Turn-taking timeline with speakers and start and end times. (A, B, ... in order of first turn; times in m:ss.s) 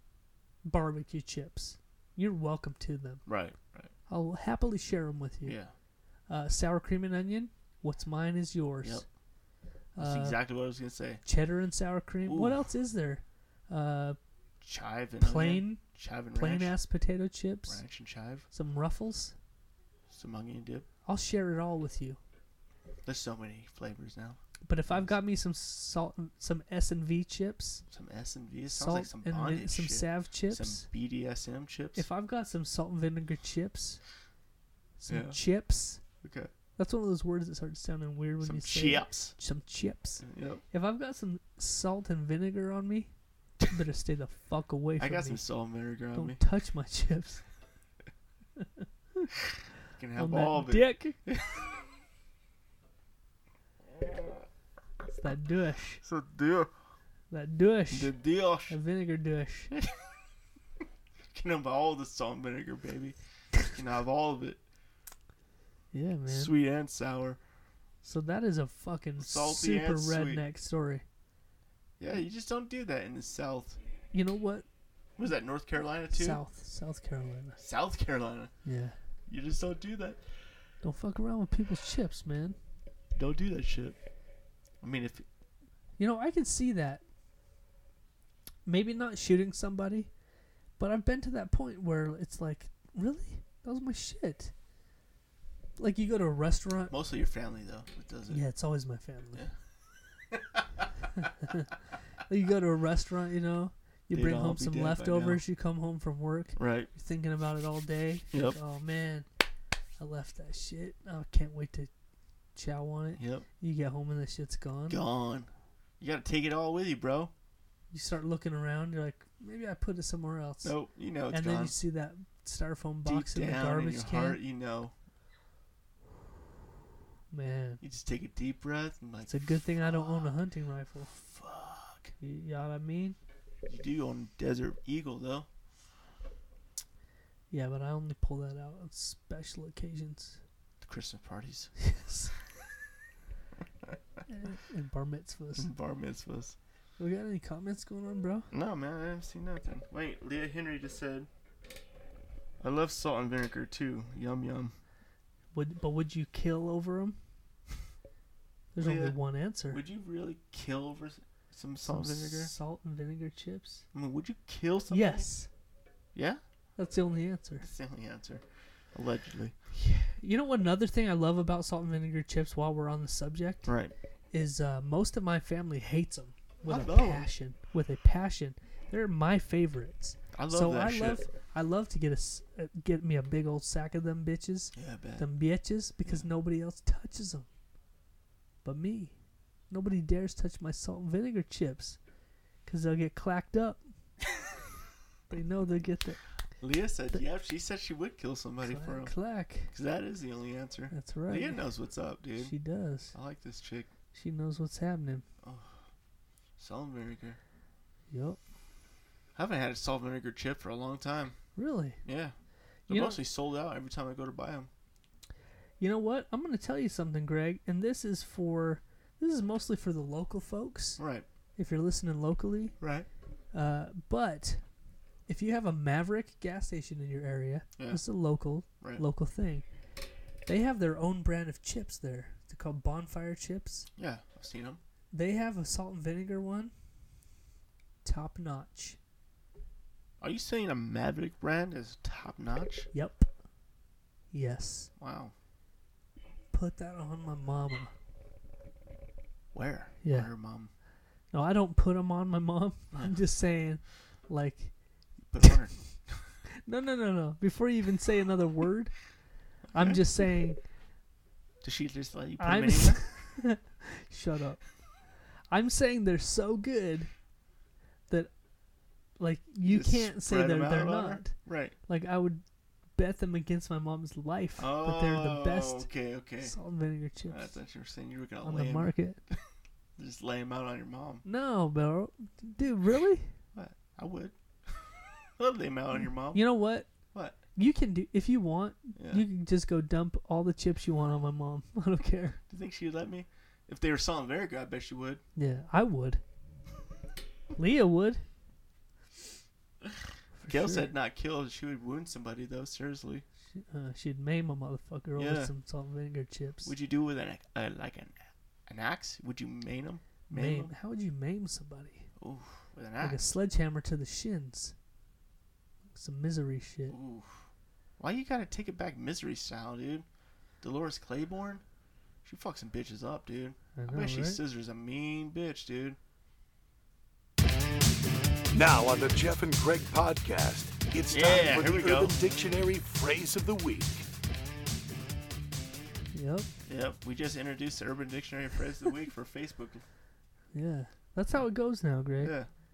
0:00.6-0:03.2 A
0:03.2-0:03.9 B
0:04.1-0:05.6 A
0:05.4-0:05.7 B
0:06.3-0:09.0 A
0:09.9-0:10.4 A
0:10.0-0:11.2 B
0:11.2-0:14.2 A
0:12.2-0:12.6 B
0:14.6-0:16.7 B
0:15.2-0:15.8 A
0:16.3-0:17.8 A
0:17.7-0:18.4 B
0:18.5-0:19.3 A
0:20.1-0:20.9 B
0:21.0-0:22.2 A
0:23.0-0:25.2 B
0:24.6-0:27.8 A
0:27.9-0:32.0 B
0:28.7-0:30.8 A
0:31.9-0:34.0 A
0:35.0-0:36.0 A
0:35.1-0:35.4 B
0:36.2-0:36.5 B
0:36.8-0:43.1 A
0:38.4-0:39.4 B
0:40.2-0:40.6 B
0:43.7-0:45.4 A
0:45.0-0:46.4 B
0:46.1-0:47.4 A
0:48.6-0:49.2 A
0:50.0-0:51.6 B
0:50.2-0:51.2 A
0:53.9-0:54.4 B
0:55.1-0:56.0 A
0:56.0-0:56.7 B
0:57.3-0:58.2 A
0:57.9-0:58.8 B
0:58.7-0:59.7 A
0:59.7-1:00.1 B
1:01.3-1:04.6 B
1:05.9-1:06.5 A
1:06.3-1:07.4 B
1:08.0-1:11.0 A
1:09.2-1:10.4 B
1:12.0-1:13.8 B
1:14.1-1:14.6 A
1:15.2-1:16.4 B
1:16.1-1:17.6 A
1:17.6-1:18.5 B
1:18.6-1:19.0 A
1:19.3-1:20.2 B
1:20.8-1:22.6 A
1:23.1-1:24.0 B
1:24.8-1:25.2 B
1:26.0-1:27.0 A
1:28.6-1:30.1 A
1:30.8-1:34.5 A
1:35.8-1:37.0 A
1:36.9-1:38.4 B
1:38.3-1:39.5 A
1:40.3-1:40.8 B
1:41.2-1:41.7 A
1:42.2-1:49.3 A
1:44.1-1:45.4 B
1:46.6-1:46.9 B
1:48.3-1:48.6 B
1:50.0-1:51.9 A
1:52.5-1:55.0 A
1:53.2-1:53.4 B
1:54.9-1:57.3 B
1:57.9-2:00.8 A
2:00.6-2:01.8 B
2:01.3-2:04.4 A
2:03.0-2:04.9 B
2:07.3-2:07.8 A
2:07.8-2:10.3 B
2:09.2-2:11.1 A
2:11.1-2:12.1 B
2:12.2-2:13.2 A
2:13.6-2:15.5 B
2:17.5-2:20.4 A
2:20.8-2:21.7 B
2:21.8-2:22.3 A
2:24.3-2:25.7 A
2:25.5-2:26.6 B
2:27.0-2:28.5 A
2:28.5-2:31.3 B
2:32.6-2:34.7 B
2:35.5-2:37.2 A
2:38.7-2:39.8 A
2:38.8-2:39.2 B
2:39.7-2:42.5 B
2:41.8-2:43.8 A
2:43.9-2:45.3 B
2:44.9-2:45.5 A
2:46.1-2:46.4 B
2:46.8-2:47.7 A
2:47.6-2:49.7 B
2:49.8-2:53.7 A
2:53.6-2:53.9 B
2:54.3-3:07.5 A
2:56.6-2:57.3 B
3:00.3-3:01.2 B
3:04.7-3:05.3 B
3:08.6-3:09.1 A
3:09.7-3:12.0 A
3:12.6-3:13.8 A
3:15.3-3:16.2 A
3:16.6-3:19.1 B
3:18.6-3:19.7 A
3:19.7-3:22.5 B
3:20.9-3:21.6 A
3:22.4-3:23.1 A
3:23.1-3:23.9 B
3:24.1-3:25.2 A
3:25.4-3:25.8 B
3:26.6-3:27.4 B
3:28.1-3:28.4 A
3:29.3-3:31.4 B
3:31.6-3:32.0 A
3:32.0-3:32.3 B
3:32.9-3:33.2 A
3:32.9-3:34.7 B
3:35.8-3:41.0 A
3:41.0-3:41.2 B
3:41.6-3:42.8 A
3:42.8-3:43.1 B
3:43.5-3:44.6 A
3:45.3-3:49.6 A
3:50.5-3:53.9 A
3:54.0-3:54.8 B
3:55.1-3:56.7 A
3:58.0-3:59.0 A
4:00.2-4:02.9 B
4:02.9-4:03.3 A
4:04.3-4:04.9 A
4:05.0-4:05.3 B
4:06.5-4:07.9 A
4:09.5-4:10.7 B
4:10.0-4:10.3 A
4:11.3-4:14.7 A
4:15.3-4:16.3 B
4:16.6-4:19.0 A
4:19.7-4:20.2 B
4:19.7-4:20.6 A
4:21.6-4:23.0 B
4:22.4-4:24.6 A
4:25.5-4:27.1 A
4:29.2-4:32.4 A
4:29.6-4:31.7 B
4:32.9-4:35.9 A
4:34.6-4:36.6 B
4:36.4-4:37.5 A
4:37.3-4:39.4 B
4:38.4-4:39.2 A
4:40.0-4:41.2 B
4:41.2-4:43.3 A
4:43.5-4:46.4 B
4:46.0-4:46.9 A
4:47.1-4:47.4 B
4:47.5-4:52.4 A
4:49.0-4:49.2 B
4:52.5-4:55.2 B
4:55.4-4:56.2 A
4:57.6-4:58.2 A
5:00.3-5:00.9 A
5:00.5-5:03.2 B
5:03.5-5:06.7 A
5:05.2-5:05.5 B
5:06.6-5:10.7 B
5:10.3-5:12.1 A
5:12.2-5:13.2 B
5:13.0-5:14.7 A
5:15.9-5:17.0 A
5:16.9-5:17.4 B
5:18.0-5:20.0 B
5:20.6-5:21.6 B
5:22.2-5:26.0 B
5:23.8-5:24.4 A
5:28.5-5:34.1 C
5:31.1-5:32.2 B
5:36.1-5:36.5 A
5:36.6-5:39.8 B
5:40.5-5:42.4 A
5:42.2-5:42.5 B